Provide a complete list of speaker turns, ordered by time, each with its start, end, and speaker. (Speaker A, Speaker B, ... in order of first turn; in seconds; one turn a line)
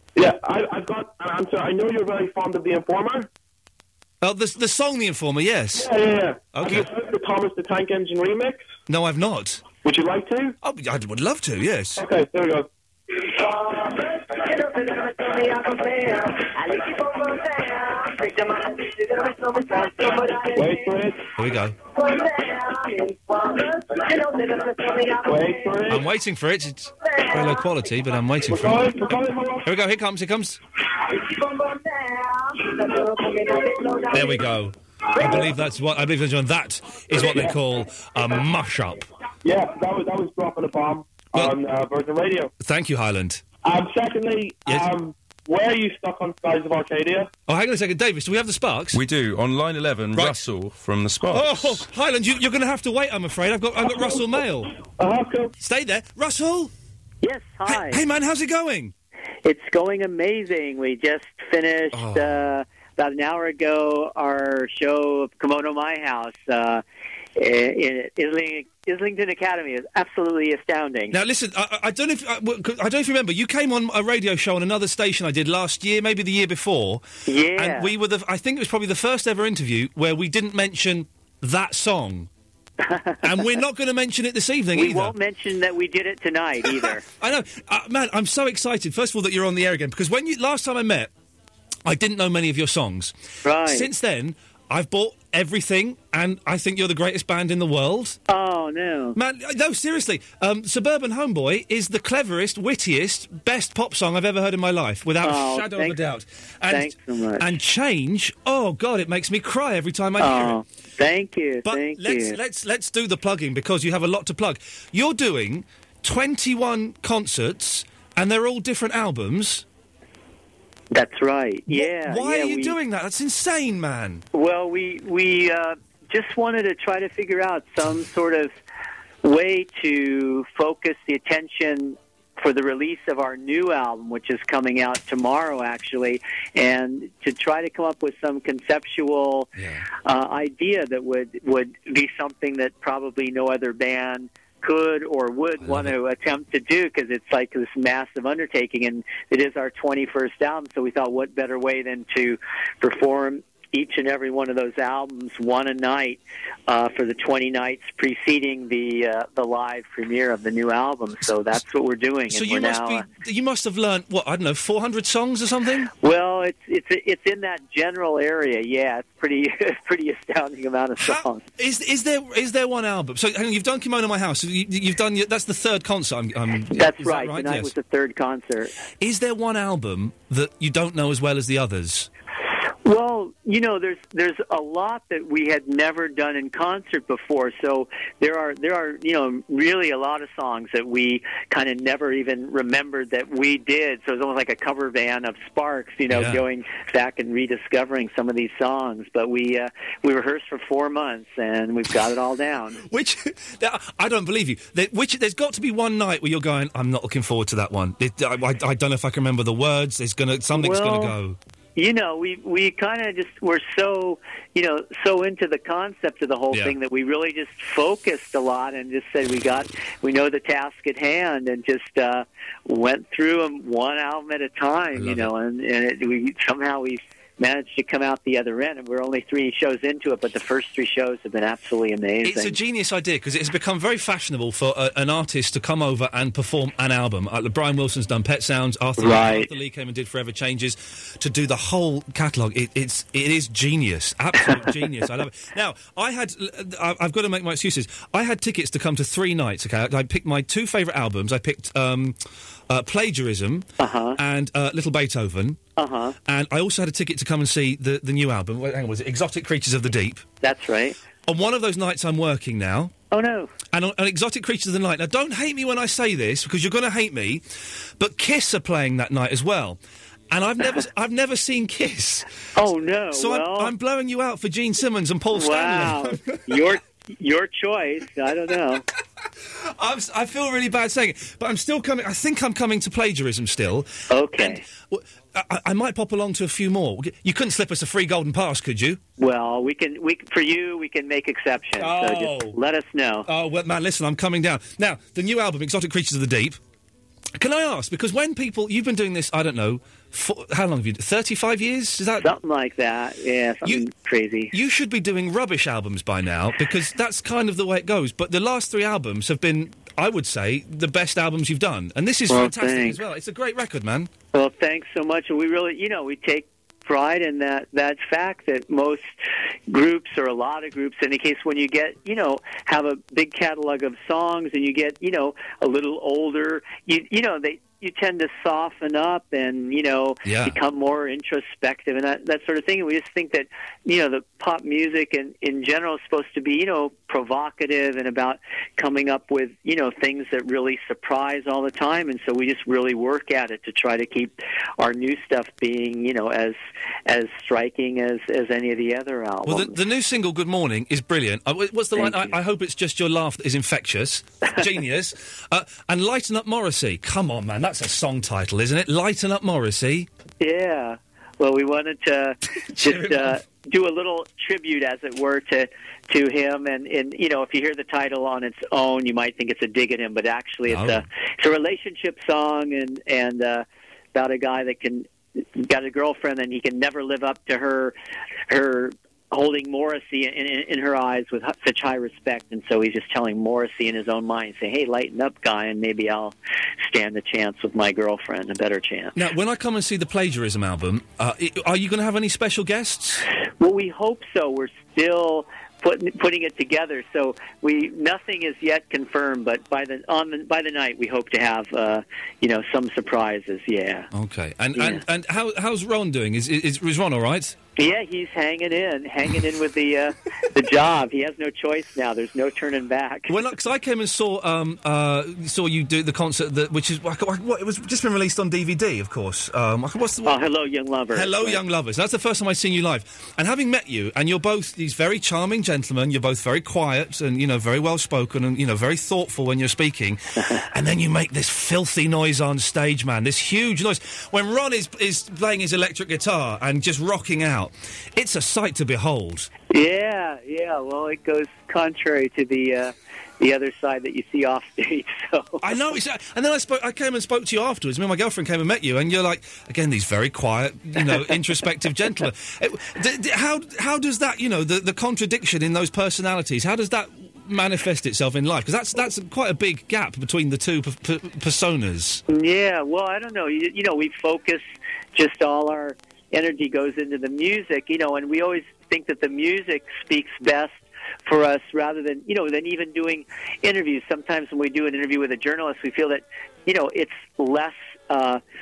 Speaker A: 0.2-3.3
Speaker B: 4.2-5.9
Speaker A: 5.8-8.7
Speaker B: 6.5-6.9
Speaker B: 8.9-9.7
Speaker A: 9.8-10.6
Speaker B: 10.6-12.0
Speaker A: 12.0-12.7
Speaker A: 19.9-21.3
Speaker B: 21.4-21.8
Speaker A: 25.2-26.1
Speaker B: 25.9-28.9
Speaker A: 28.5-29.7
Speaker B: 29.6-30.6
Speaker B: 34.1-39.0
Speaker A: 35.2-35.5
Speaker A: 37.1-37.6
Speaker A: 39.4-42.5
Speaker B: 42.6-43.4
Speaker A: 43.6-47.3
Speaker B: 47.5-49.0
Speaker C: 48.9-51.8
Speaker B: 50.1-50.5
Speaker B: 51.3-54.7
Speaker A: 55.0-55.5
Speaker B: 55.6-56.7
Speaker D: 57.2-58.0
Speaker B: 57.7-58.9
Speaker D: 59.5-66.8
Speaker B: 61.9-62.5
Speaker D: 67.4-71.2
Speaker B: 71.1-82.3
Speaker D: 77.3-77.9
Speaker D: 82.8-83.4
Speaker B: 83.2-85.2
Speaker D: 84.8-87.0
Speaker B: 86.7-91.1
Speaker B: 91.8-98.2
Speaker D: 93.4-93.9
Speaker D: 98.3-99.2
Speaker B: 99.2-110.6
Speaker D: 105.2-106.0
Speaker D: 106.7-107.5
Speaker D: 110.2-112.4
Speaker B: 111.7-119.7
Speaker D: 120.9-122.8
Speaker B: 121.7-124.2
Speaker D: 124.3-128.5
Speaker D: 129.2-139.5
Speaker B: 139.6-139.9
Speaker D: 140.1-163.1
Speaker B: 145.6-146.0
Speaker B: 162.3-165.9
Speaker D: 166.0-171.4
Speaker B: 171.0-177.7
Speaker D: 176.7-178.7
Speaker B: 179.0-182.1
Speaker D: 182.8-202.8
Speaker B: 196.1-196.4
Speaker B: 202.8-211.4
Speaker D: 210.5-211.1
Speaker D: 211.8-232.6
Speaker B: 224.9-225.3
Speaker B: 232.2-252.2
Speaker D: 239.0-239.5
Speaker B: 252.7-255.6
Speaker D: 253.8-254.2
Speaker D: 255.8-256.2
Speaker B: 256.3-260.3
Speaker D: 260.4-261.0
Speaker B: 261.3-262.9
Speaker D: 263.1-263.5
Speaker B: 263.7-267.4
Speaker B: 268.0-269.8
Speaker B: 270.3-272.3
Speaker D: 272.6-273.7
Speaker B: 273.1-276.6
Speaker D: 275.3-278.8
Speaker B: 279.6-289.0
Speaker D: 284.1-284.6
Speaker D: 289.2-293.3
Speaker B: 291.8-292.6
Speaker B: 293.3-296.6
Speaker B: 297.4-302.3
Speaker D: 302.2-304.5
Speaker B: 304.5-314.1
Speaker D: 312.3-313.0
Speaker D: 314.3-319.1
Speaker D: 319.7-349.8
Speaker B: 330.2-330.6
Speaker B: 349.5-360.1
Speaker D: 352.0-352.3
Speaker D: 360.4-375.1
Speaker B: 362.7-363.4
Speaker B: 370.7-371.0
Speaker D: 375.6-377.9
Speaker D: 378.5-389.1
Speaker B: 389.2-393.2
Speaker D: 393.6-404.1
Speaker B: 404.1-407.6
Speaker D: 404.8-405.0
Speaker D: 407.8-413.4
Speaker B: 413.3-420.4
Speaker D: 420.2-421.6
Speaker B: 421.1-430.2
Speaker B: 430.7-439.5
Speaker D: 439.7-445.9
Speaker B: 445.6-462.2
Speaker D: 462.3-478.4